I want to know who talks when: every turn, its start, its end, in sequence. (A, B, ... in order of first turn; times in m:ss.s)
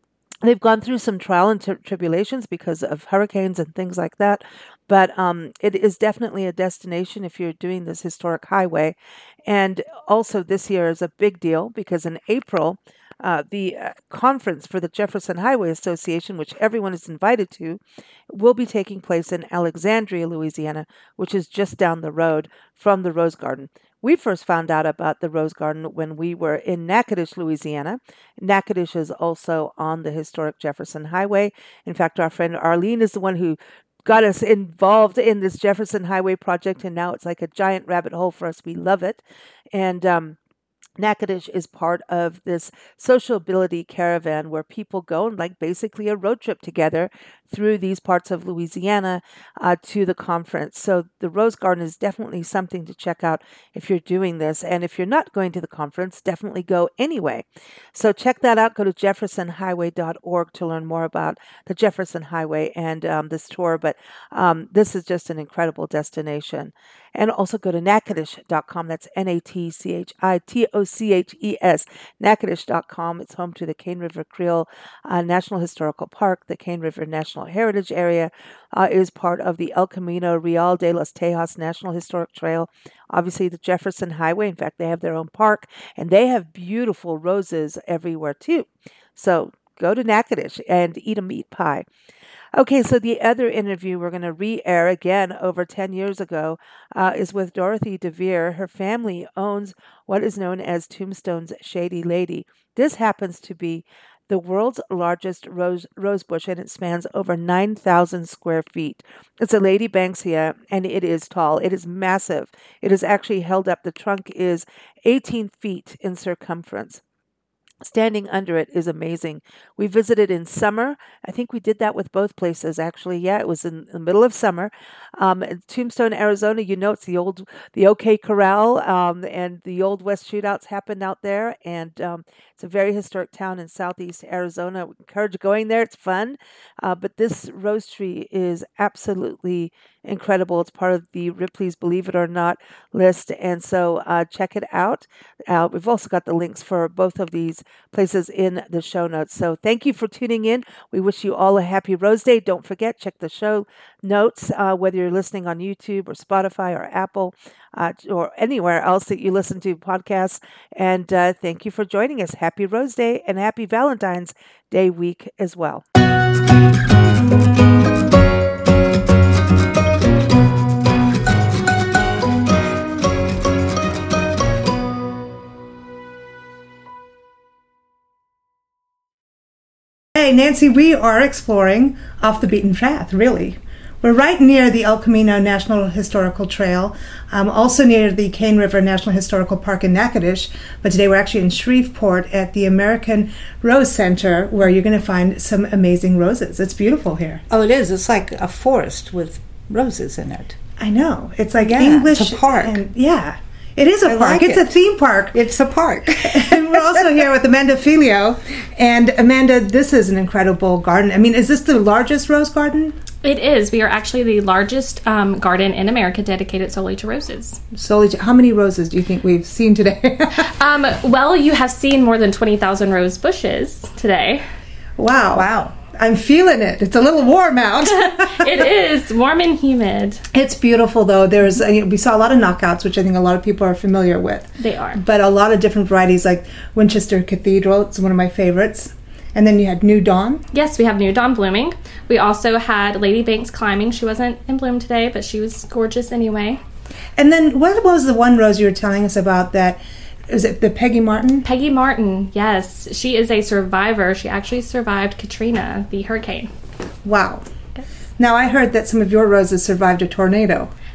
0:00.4-0:09.0 A
0:09.5-0:39.2 A
0:39.7-0:40.4 A
0:41.0-1:31.9 A
1:32.6-1:57.0 A
1:57.8-2:45.8 A
3:00.1-3:17.4 B
3:17.5-3:20.6 C
3:20.8-3:25.4 B
3:21.6-3:22.8 C
3:24.1-3:24.7 C
3:25.3-3:27.0 C
3:26.2-3:33.0 B
3:33.2-3:37.6 D
3:37.7-3:40.5 B
3:40.4-3:44.4 D
3:45.0-3:48.7 B
3:45.3-3:45.8 C
3:47.8-3:50.2 D
3:50.3-4:00.4 B
3:54.6-3:55.0 D
4:00.5-4:06.6 D
4:07.2-4:11.5 B
4:11.4-4:16.5 D
4:17.0-4:17.5 B
4:18.2-4:20.7 B